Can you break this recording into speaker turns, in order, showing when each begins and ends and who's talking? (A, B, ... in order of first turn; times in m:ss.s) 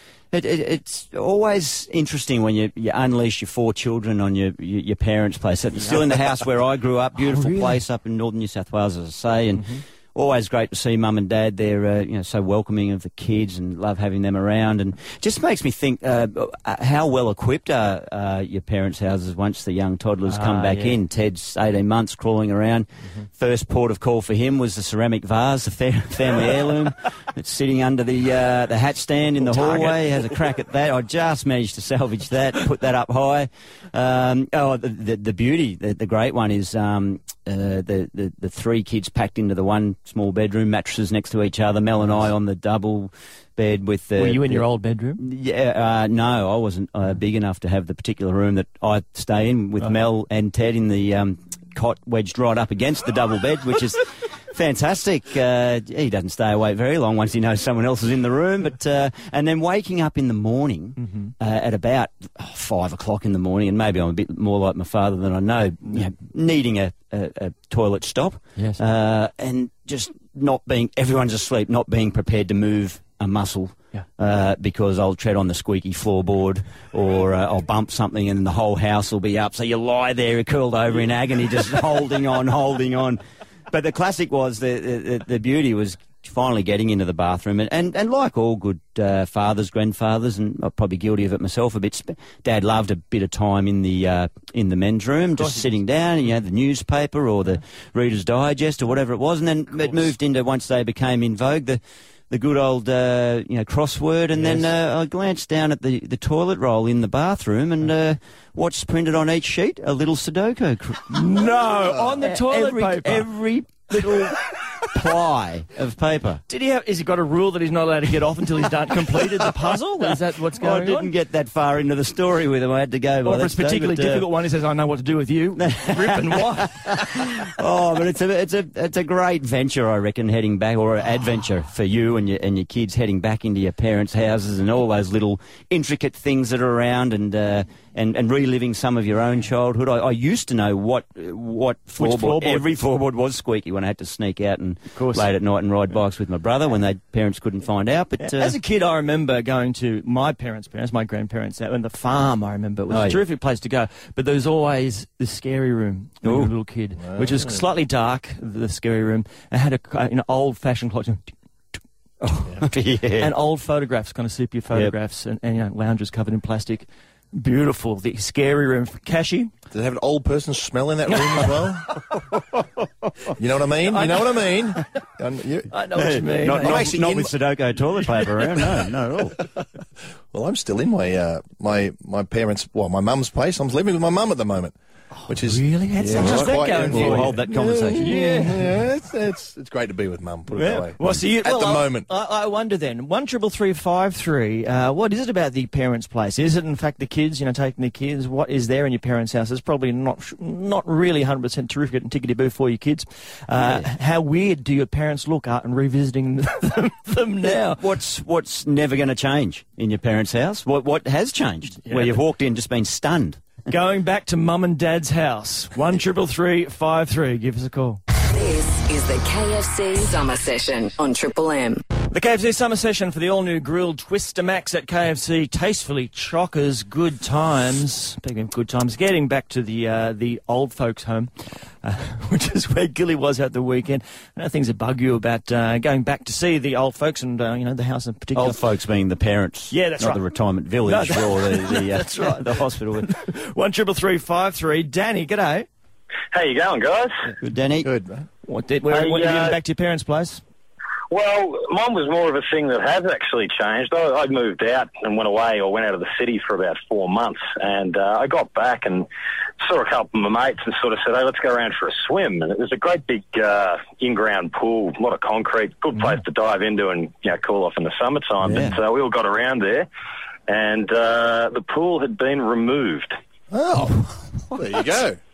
0:00.3-0:44.6 A
0:05.8-0:06.2 B
0:07.3-0:07.8 B
0:09.5-0:09.8 B
0:20.2-0:21.0 B
0:29.5-0:30.2 B
0:42.0-0:42.3 B
0:44.2-0:45.2 B
0:45.2-1:23.2 A
1:01.0-1:01.3 B
1:08.6-1:08.8 B
1:23.7-1:51.2 A
1:35.4-1:35.7 B
1:39.8-1:40.0 B
1:44.4-1:44.7 B
1:51.1-1:54.3 B
1:52.2-1:56.4 A
1:56.5-2:01.1 B
2:00.0-2:04.2 A
2:03.2-2:07.2 B
2:05.6-2:28.6 A
2:22.0-2:22.6 B
2:24.9-2:25.3 B
2:28.2-2:41.3 B
2:32.9-2:33.2 A
2:36.2-2:36.5 A
2:37.0-2:37.6 C
2:42.2-2:43.3 A
2:43.2-2:49.5 B
2:49.7-2:51.9 C
2:53.4-2:55.7 C
2:53.9-2:54.4 B
2:55.7-2:57.0 B
2:55.9-2:59.4 A
2:56.5-2:57.3 C
3:00.3-3:04.7 C
3:05.2-3:08.6 B
3:05.3-3:12.1 C
3:06.2-3:08.1 A
3:10.5-3:27.8 B
3:23.6-3:23.8 A
3:27.5-3:33.6 A
3:31.8-3:32.2 B
3:33.7-3:38.0 B
3:38.2-3:41.8 D
3:42.1-3:58.6 B
3:58.3-4:03.1 A
3:59.7-4:00.2 B
4:00.8-4:05.7 B
4:06.3-4:07.2 E
4:07.4-4:07.9 A
4:07.8-4:08.3 C
4:08.4-4:10.4 B
4:08.9-4:09.6 E
4:11.1-4:19.1 E
4:19.6-4:29.9 E
4:28.4-4:28.8 A
4:30.5-4:33.2 E
4:33.5-4:35.2 C